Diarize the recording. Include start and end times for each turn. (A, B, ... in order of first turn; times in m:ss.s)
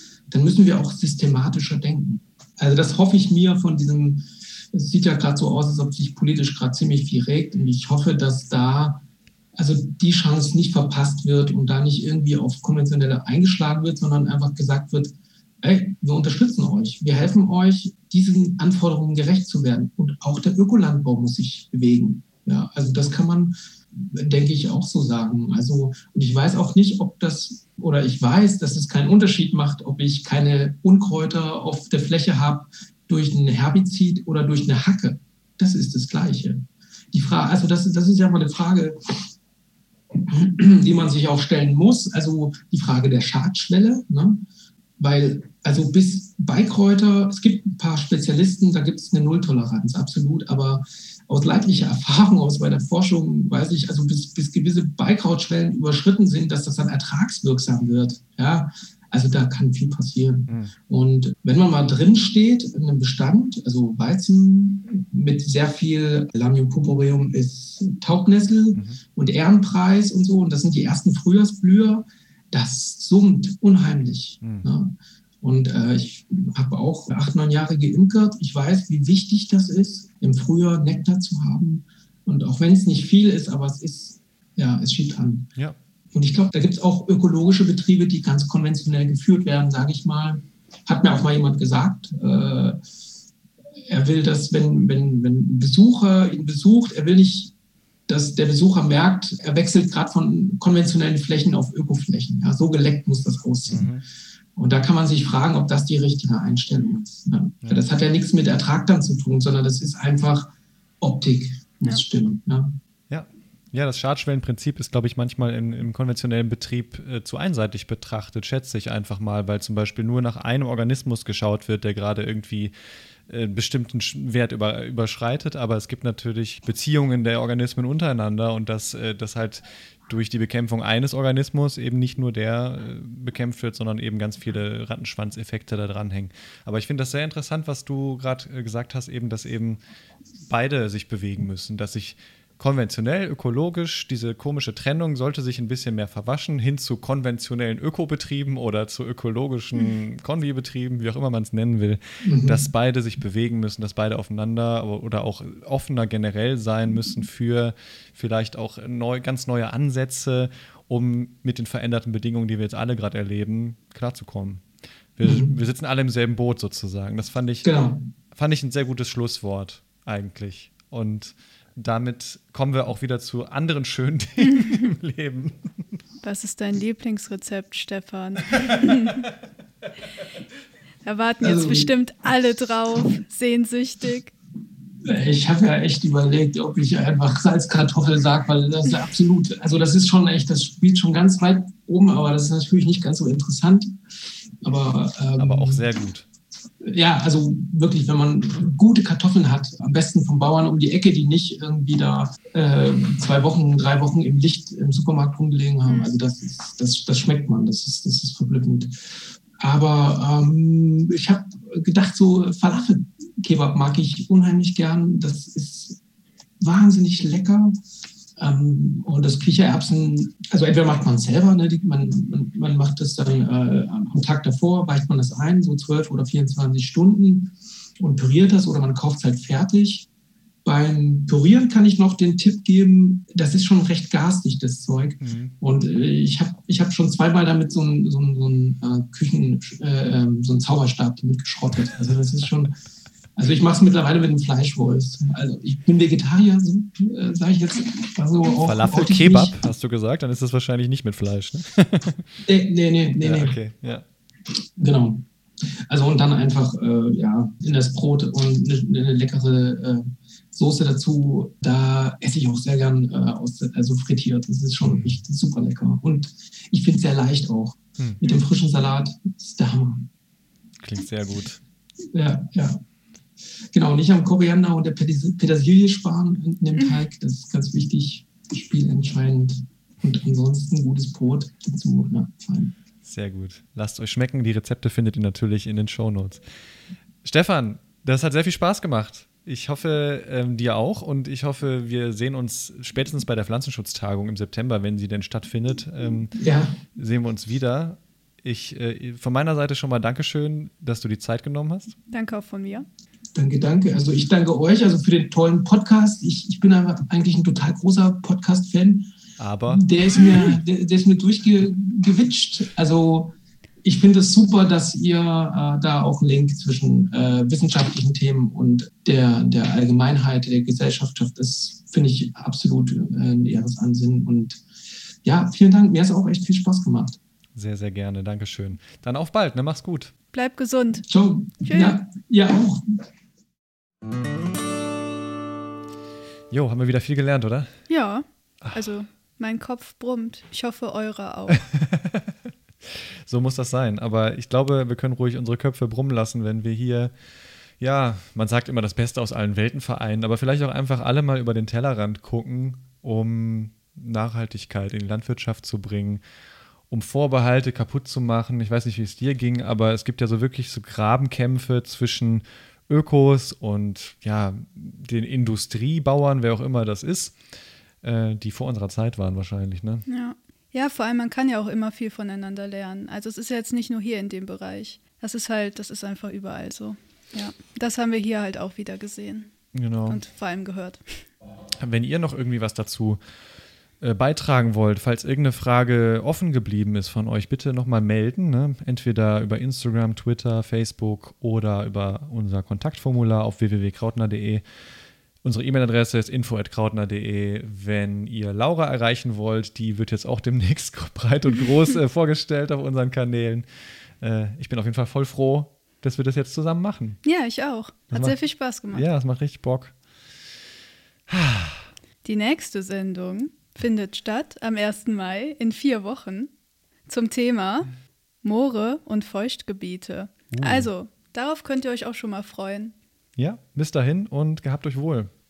0:00.3-0:09.0 A
0:09.6-0:39.3 A
0:40.1-0:44.4 A
0:45.0-1:25.5 A
1:00.5-1:00.7 B
1:08.7-1:09.0 B
1:14.4-1:14.7 B
1:26.1-1:32.8 A
1:33.8-1:37.5 A
1:38.1-1:43.9 A
1:43.7-1:44.0 B
1:44.6-1:52.8 A
1:53.1-2:02.7 B
2:03.3-2:19.8 B
2:20.5-2:47.7 B
2:32.2-2:32.7 A
2:45.2-2:45.5 A
2:47.6-2:48.1 A
2:48.3-2:55.9 B
2:54.4-2:54.8 C
2:56.2-2:59.3 C
3:01.0-3:04.3 C
3:01.4-3:01.9 A
3:05.0-3:13.9 A
3:14.6-3:15.8 A
3:15.4-3:16.2 B
3:16.8-3:36.0 A
3:25.8-3:26.1 C
3:36.6-3:37.8 A
3:38.4-3:50.1 A
3:50.6-4:02.8 A
3:55.2-3:55.5 B
4:03.4-4:09.6 A
4:08.6-4:12.3 B
4:12.4-4:13.6 A
4:13.2-4:14.0 B
4:14.8-4:15.2 A
4:15.9-4:30.1 A
4:24.8-4:25.2 B
4:30.8-4:31.6 B
4:32.1-4:32.8 A
4:33.7-4:42.7 A
4:43.0-4:46.4 B
4:47.2-5:02.0 B
4:56.4-4:56.8 A
5:02.1-5:02.8 C
5:03.3-5:09.1 A
5:09.4-5:09.9 B
5:09.7-5:13.3 A
5:13.8-5:24.6 A
5:25.2-5:27.2 A
5:27.5-5:30.1 B
5:30.3-5:31.0 C
5:31.1-5:33.0 A
5:31.6-5:32.0 C
5:36.5-5:37.7 B
5:37.9-5:41.6 C
5:41.7-5:47.1 B
5:47.8-5:56.2 B
5:56.9-6:07.4 B
6:08.0-6:10.0 B
6:10.1-6:19.5 C
6:19.7-6:20.2 B
6:20.1-6:21.2 C
6:21.8-6:23.2 B
6:24.0-6:34.6 B
6:35.4-6:43.6 B
6:44.2-6:47.2 B
6:47.2-6:49.0 C
6:48.1-6:48.4 B
6:48.9-6:49.9 B
6:51.3-6:51.9 B
6:52.2-6:56.5 C
6:57.1-6:57.9 C
6:58.4-7:02.9 C
7:00.5-7:00.9 B
7:03.4-7:05.3 B